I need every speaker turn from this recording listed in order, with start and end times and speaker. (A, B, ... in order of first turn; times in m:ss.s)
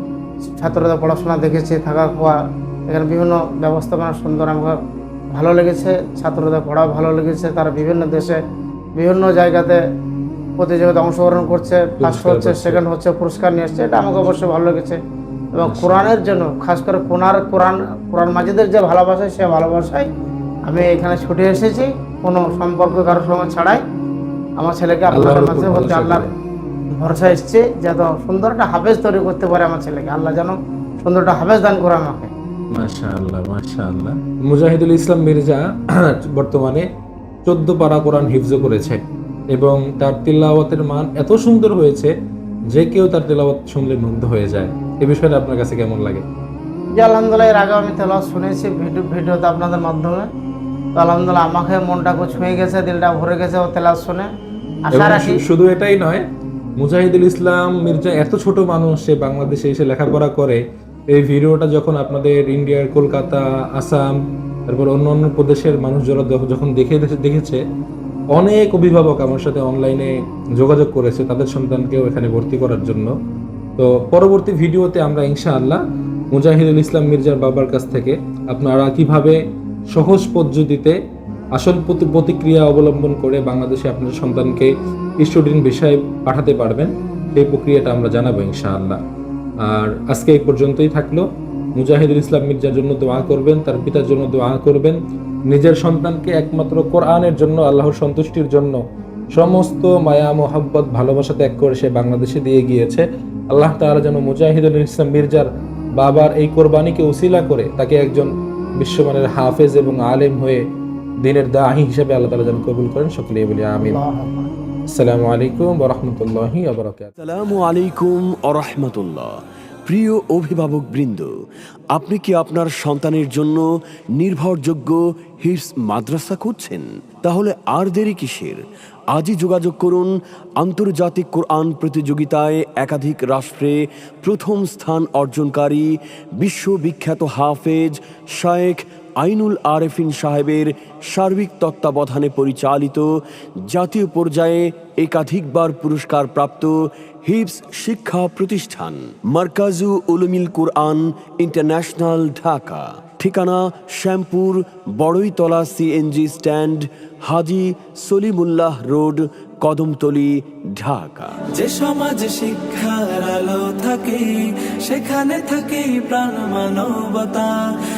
0:00.5-0:04.8 A
0:05.3-0:08.4 A
0:09.0-0:09.8 A
0:10.6-0:15.0 A
0:12.0-0:12.8 B
0:15.5-0:20.1 A
0:15.6-0:16.1 B
0:20.7-0:23.8 A
0:24.6-0:26.3 A
0:25.1-0:26.3 B
0:26.9-0:32.3 A
0:32.7-0:36.8 B
0:37.4-0:39.0 B
0:39.5-0:42.1 B
0:42.7-0:46.2 B
0:47.0-0:50.3 A
0:50.9-0:54.3 A
0:54.9-0:55.4 A
0:54.9-0:56.2 B
0:56.8-1:07.6 B
1:08.3-1:13.1 B
1:13.8-1:15.8 B
1:16.3-1:19.4 B
1:19.9-1:20.9 B
1:21.6-1:29.0 B
1:29.6-1:31.2 B
1:31.8-1:35.0 B
1:35.5-1:38.8 B
1:39.3-1:50.6 B
1:51.2-1:54.0 B
1:53.8-1:54.5 A
1:54.9-1:57.1 B
1:57.2-1:59.3 C
1:59.8-2:01.3 C
2:01.9-2:03.6 C
2:04.2-2:08.6 C
2:09.1-2:23.1 C
2:23.6-2:41.4 C
2:41.5-2:47.5 D